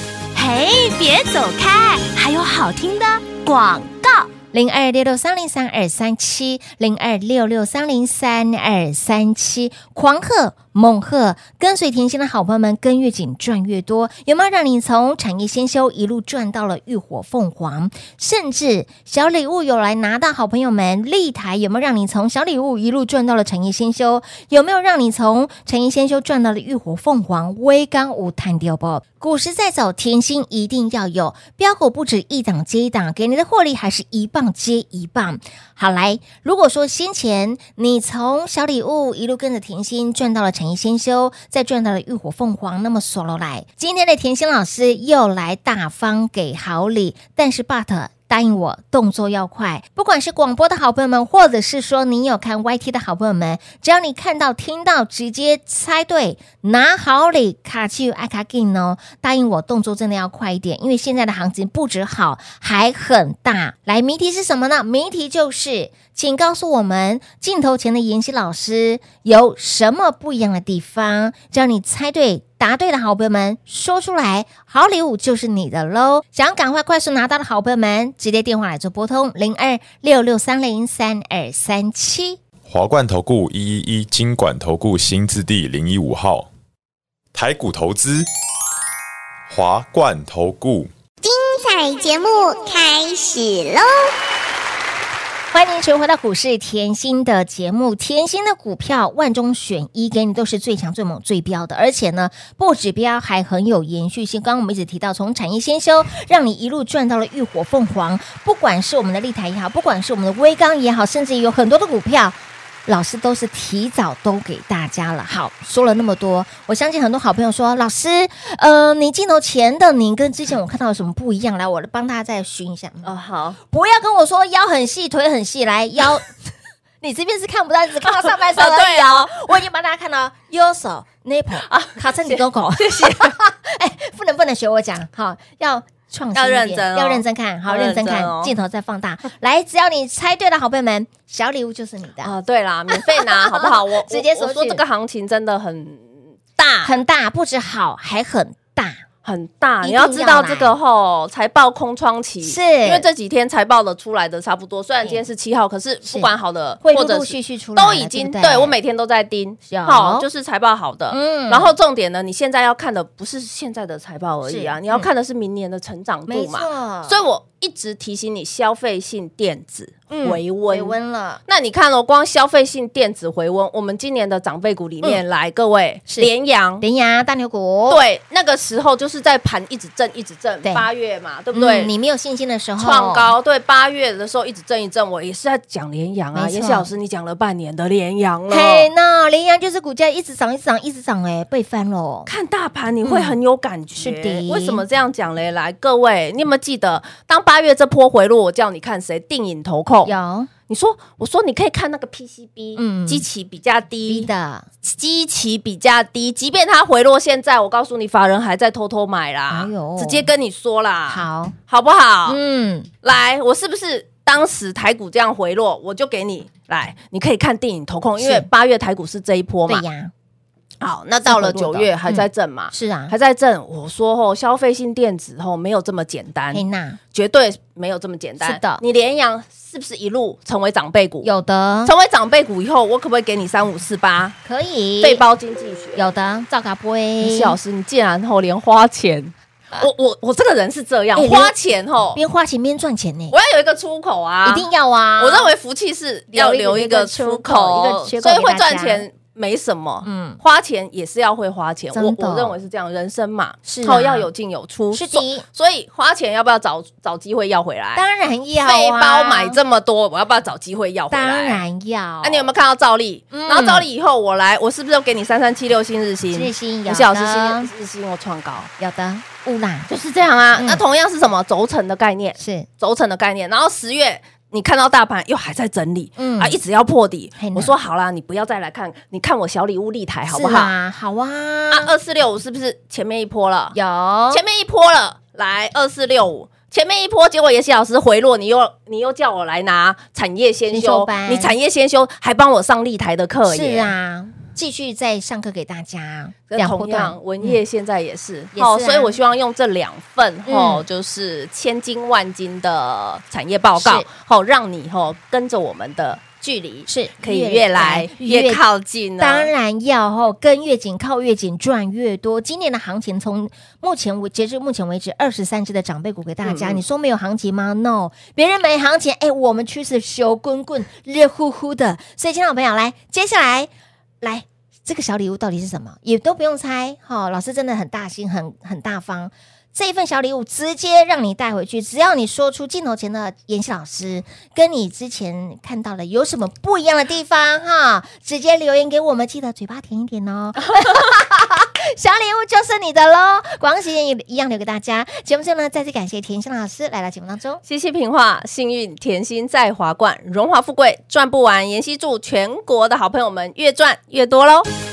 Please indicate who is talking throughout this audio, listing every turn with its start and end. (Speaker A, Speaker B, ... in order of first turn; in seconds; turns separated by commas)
Speaker A: 0.3-4.4, Speaker B: 4.5-82.4, Speaker C: 82.7-86.5, Speaker C: 87.3-88.3, Speaker C: 89.5-90.9, Speaker D: 91.2-94.1, Speaker B: 95.5-123.1, Speaker E: 123.0-123.6, Speaker B: 123.6-126.5, Speaker B: 127.0-142.3, Speaker E: 128.0-129.4, Speaker E: 131.6-133.4, Speaker E: 136.3-138.5, Speaker E: 142.2-146.9, Speaker B: 142.9-144.8, Speaker B: 146.8-149.0, Speaker E: 149.2-170.9, Speaker B: 149.8-150.8, Speaker B: 152.4-153.1, Speaker B: 156.8-158.7, Speaker B: 159.7-160.2, Speaker B: 161.1-161.7, Speaker B: 164.4-165.1, Speaker B: 166.3-167.2, Speaker B: 170.1-171.4, Speaker E: 171.5-176.8, Speaker B: 176.8-178.0, Speaker E: 177.9-181.9, Speaker B: 181.5-183.3, Speaker E: 182.8-188.9, Speaker B: 186.3-186.9, Speaker B: 188.5-192.3, Speaker E: 192.2-200.1, Speaker B: 193.0-193.4, Speaker B: 193.9-194.8, Speaker B: 200.0-200.5, Speaker E: 200.7-204.3, Speaker B: 202.8-203.2, Speaker B: 204.1-204.7, Speaker E: 204.8-212.4, Speaker B: 209.5-210.3, Speaker B: 211.1-211.5, Speaker B: 212.3-212.9, Speaker E: 213.0-219.8, Speaker B: 218.2-218.5, Speaker B: 219.7-220.1, Speaker E: 220.8-231.3, Speaker B: 221.2-223.1, Speaker B: 226.5-227.0, Speaker B: 228.4-228.8, Speaker B: 231.2-231.9, Speaker E: 231.8-234.3, Speaker B: 234.4-235.2, Speaker E: 235.0-236.1, Speaker B: 235.9-237.6, Speaker E: 237.2-242.2, Speaker B: 241.1-241.5, Speaker B: 242.1-243.3, Speaker E: 243.3-244.7, Speaker B: 244.4-245.5, Speaker E: 245.2-258.0, Speaker B: 246.3-249.1, Speaker B: 250.0-250.4, Speaker B: 251.9-252.6, Speaker B: 253.7-254.3, Speaker B: 254.9-255.4, Speaker B: 257.9-259.6, Speaker E: 258.6-261.6, Speaker B: 261.1-262.5, Speaker E: 262.2-268.7, Speaker B: 263.3-263.9, Speaker B: 266.3-267.7, Speaker B: 268.8-269.9, Speaker E: 269.9-280.7, Speaker B: 270.6-270.8, Speaker B: 272.4-272.7, Speaker B: 276.2-276.6, Speaker B: 277.4-277.7, Speaker B: 280.3-281.9, Speaker E: 281.7-283.8, Speaker B: 283.7-284.4, Speaker E: 284.3-293.9, Speaker B: 290.7-291.5, Speaker B: 293.4-297.6, Speaker E: 296.5-309.5, Speaker B: 298.5-299.2, Speaker B: 300.5-300.8, Speaker B: 303.8-304.1, Speaker B: 306.9-308.6, Speaker B: 309.2-323.7, Speaker E: 316.4-316.8, Speaker B: 324.2-347.6, Speaker E: 347.6-354.7